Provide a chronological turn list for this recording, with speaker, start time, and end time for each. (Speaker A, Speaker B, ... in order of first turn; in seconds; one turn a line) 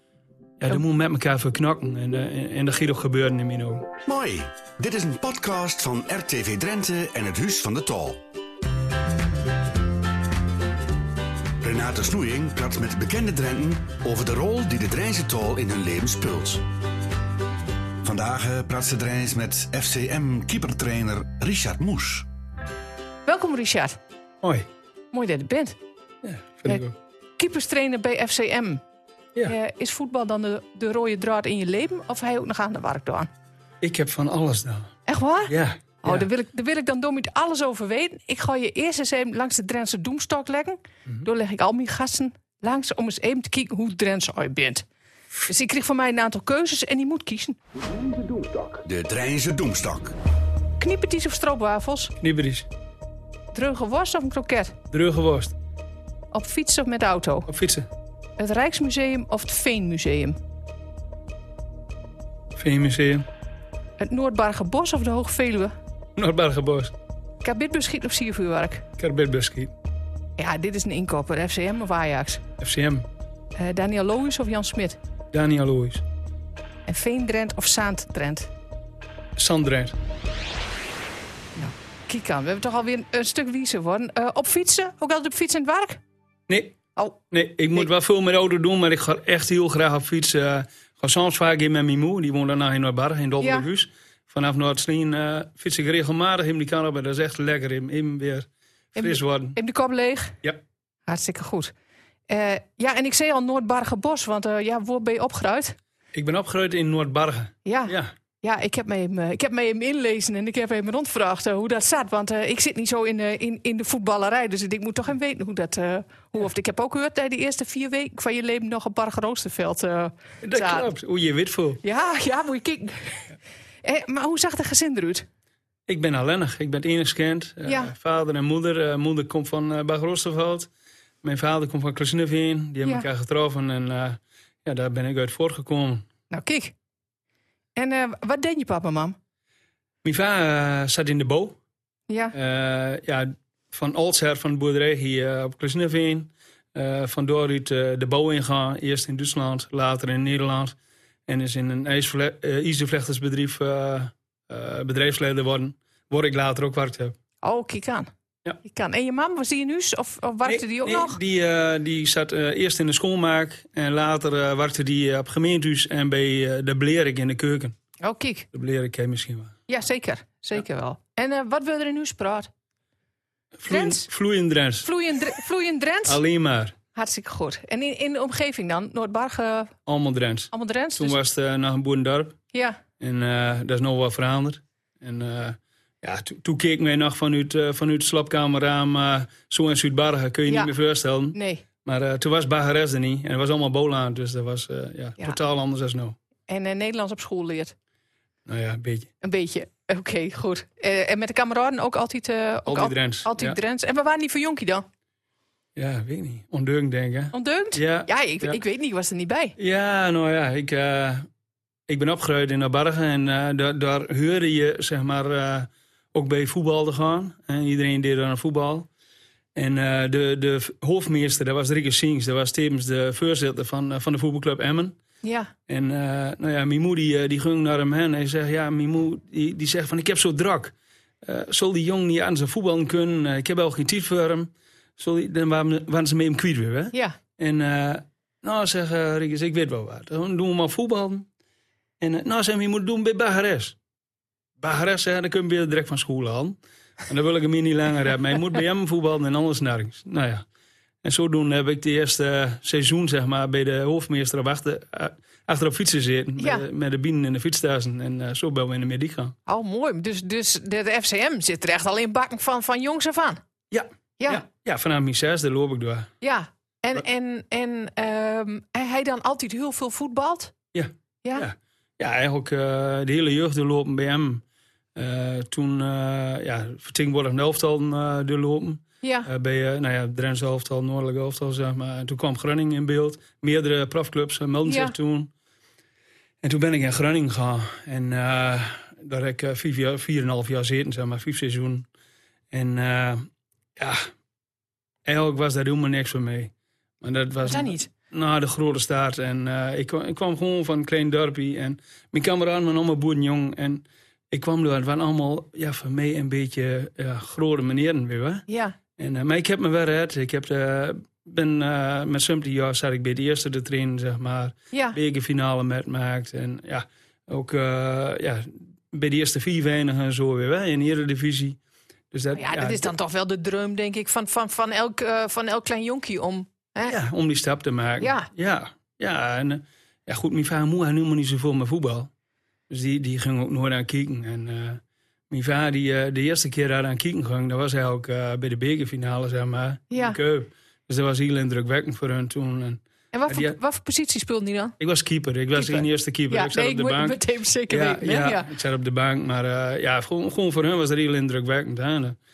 Speaker A: 0.6-3.9
Speaker B: 4.1-8.2
Speaker B: 11.6-16.6
Speaker B: 18.0-22.3
Speaker C: 23.3-24.0
Speaker A: 24.4-24.7
Speaker C: 25.1-25.8
Speaker A: 26.2-26.9
Speaker C: 27.4-28.8
Speaker C: 29.5-33.3
Speaker A: 33.8-34.9
Speaker C: 35.1-44.9
Speaker A: 35.5-36.3
Speaker C: 45.5-47.6
Speaker B: 47.9-50.2
Speaker C: 50.8-52.1
Speaker A: 52.2-52.7
Speaker C: 53.5-54.8
Speaker A: 54.9-55.5
Speaker C: 56.3-57.5
Speaker A: 57.5-57.9
Speaker C: 58.4-60.4
Speaker A: 62.5-63.2
Speaker C: 64.0-65.7
Speaker A: 66.2-66.9
Speaker C: 67.4-68.8
Speaker A: 69.0-69.7
Speaker C: 70.4-72.4
Speaker A: 72.6-73.1
Speaker C: 73.6-75.0
Speaker A: 75.3-76.0
Speaker C: 76.9-78.5
Speaker A: 79.4-80.0
Speaker C: 81.6-86.0
Speaker A: 86.5-86.8
Speaker A: 87.3-99.6
Speaker C: 93.4-93.7
Speaker C: 99.0-100.4
Speaker C: 101.1-101.7
Speaker C: 102.3-105.8
Speaker A: 106.1-108.1
Speaker C: 107.7-120.9
Speaker A: 120.4-121.8
Speaker C: 121.8-125.3
Speaker A: 125.9-130.7
Speaker C: 127.7-127.9
Speaker A: 131.2-136.1
Speaker C: 136.3-136.7
Speaker C: 137.8-139.2
Speaker A: 140.0-141.6
Speaker C: 142.1-142.3
Speaker A: 142.3-150.8
Speaker A: 151.3-157.1
Speaker C: 157.4-158.1
Speaker C: 158.6-161.2
Speaker A: 160.4-167.8
Speaker C: 168.0-168.5
Speaker A: 168.5-169.6
Speaker C: 169.7-172.5
Speaker A: 173.6-174.9
Speaker C: 173.7-174.1
Speaker C: 174.8-176.2
Speaker A: 176.1-176.8
Speaker C: 176.9-179.7
Speaker A: 179.9-182.4
Speaker C: 180.5-181.2
Speaker C: 182.5-182.8
Speaker A: 183.0-196.2
Speaker C: 190.5-190.7
Speaker C: 191.3-191.6
Speaker C: 196.5-197.8
Speaker A: 198.5-199.1
Speaker C: 199.2-204.9
Speaker A: 202.7-203.6
Speaker A: 205.8-208.6
Speaker C: 207.3-209.6
Speaker A: 209.6-211.3
Speaker A: 211.9-218.9
Speaker A: 219.6-225.0
Speaker C: 225.2-225.5
Speaker A: 225.7-241.3
Speaker A: 242.0-243.8
Speaker A: 244.6-250.4
Speaker A: 251.0-259.4
Speaker C: 256.4-256.6
Speaker C: 259.5-263.4
Speaker A: 263.7-266.1
Speaker C: 266.2-270.5
Speaker A: 270.7-274.4
Speaker A: 274.9-285.3
Speaker C: 279.0-279.3
Speaker C: 284.7-284.9
Speaker A: 286.4-291.9
Speaker A: 292.5-294.1
Speaker A: 295.1-308.5
Speaker C: 297.4-297.9
Speaker C: 308.5-308.8
Speaker A: 309.0-321.6
Speaker C: 314.7-315.0
Speaker A: 322.1-322.9
Speaker C: 322.4-327.0
Speaker A: 326.9-332.1
Speaker C: 328.0-328.3
Speaker A: 332.7-343.6
Speaker C: 339.9-340.2
Speaker C: 343.1-344.8
Speaker A: 344.8-352.2
Speaker C: 345.6-348.5